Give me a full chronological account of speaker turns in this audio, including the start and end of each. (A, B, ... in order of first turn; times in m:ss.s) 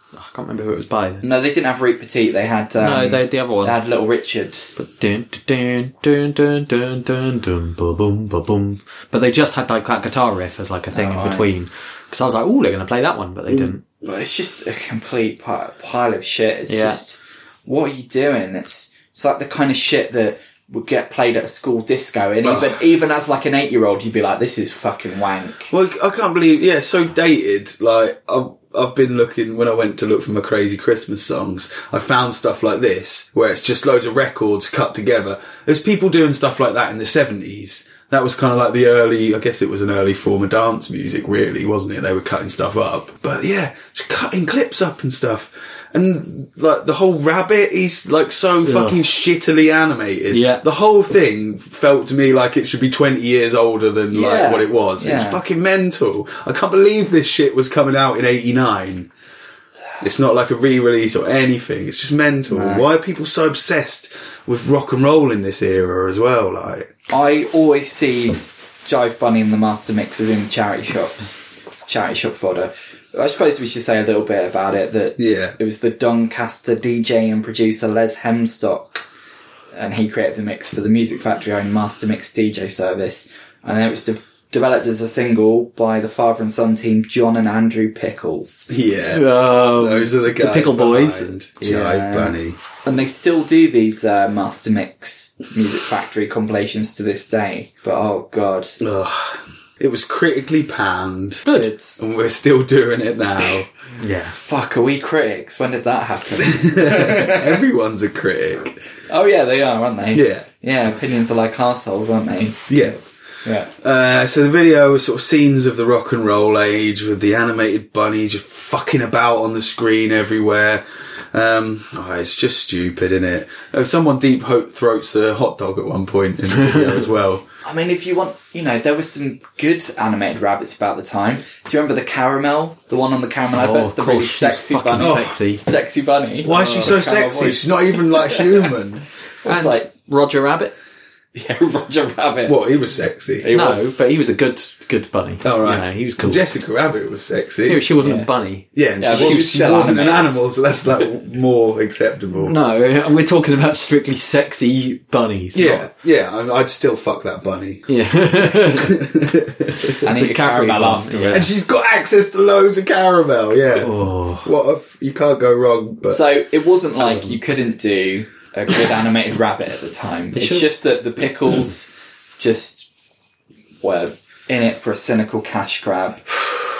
0:00.1-0:01.2 A
0:01.2-0:04.7 B
0:02.8-0:03.8 A
0:04.8-0:13.8 A
0:10.9-0:11.5 B
0:14.0-0:25.7 B
0:16.7-0:17.0 A
0:22.4-0:22.8 C
0:25.7-0:59.1 C
0:48.6-0:49.0 A
0:50.3-0:50.6 A
0:54.1-0:55.4 B
1:00.0-1:06.9 C
1:02.5-1:02.8 B
1:07.1-1:19.0 B
1:15.2-1:15.6 C
1:19.7-1:28.7 B
1:28.7-1:32.6 C
1:29.1-1:31.3 A
1:31.6-1:38.8 B
1:38.8-1:41.4 C
1:41.4-1:41.7 A
1:41.5-1:42.0 B
1:42.0-1:43.7 C
1:44.0-1:44.4 A
1:44.4-1:47.6 B
1:46.4-1:48.8 C
1:49.1-1:53.7 B
1:50.1-1:50.4 C
1:52.7-1:53.0 C
1:53.8-2:07.4 C
2:06.5-2:07.0 A
2:07.6-2:18.7 B
2:13.5-2:15.6 A
2:15.0-2:15.3 C
2:16.4-2:19.0 C
2:16.4-2:17.0 A
2:19.4-2:19.9 B
2:19.4-2:20.7 A
2:21.3-2:22.6 B
2:22.4-2:23.5 C
2:23.4-2:23.9 B
2:23.5-2:26.4 A
2:25.4-2:27.9 C
2:27.6-2:30.1 A
2:28.0-2:28.3 B
2:28.7-2:32.6 C
2:29.0-2:30.4 B
2:32.4-2:35.9 A
2:35.5-2:40.0 C
2:37.9-2:39.0 A
2:39.8-2:41.6 A
2:40.0-2:41.5 B
2:41.3-2:46.2 C
2:43.8-2:44.5 A
2:46.1-2:52.9 B
2:50.3-2:50.7 A
2:53.8-2:56.3 B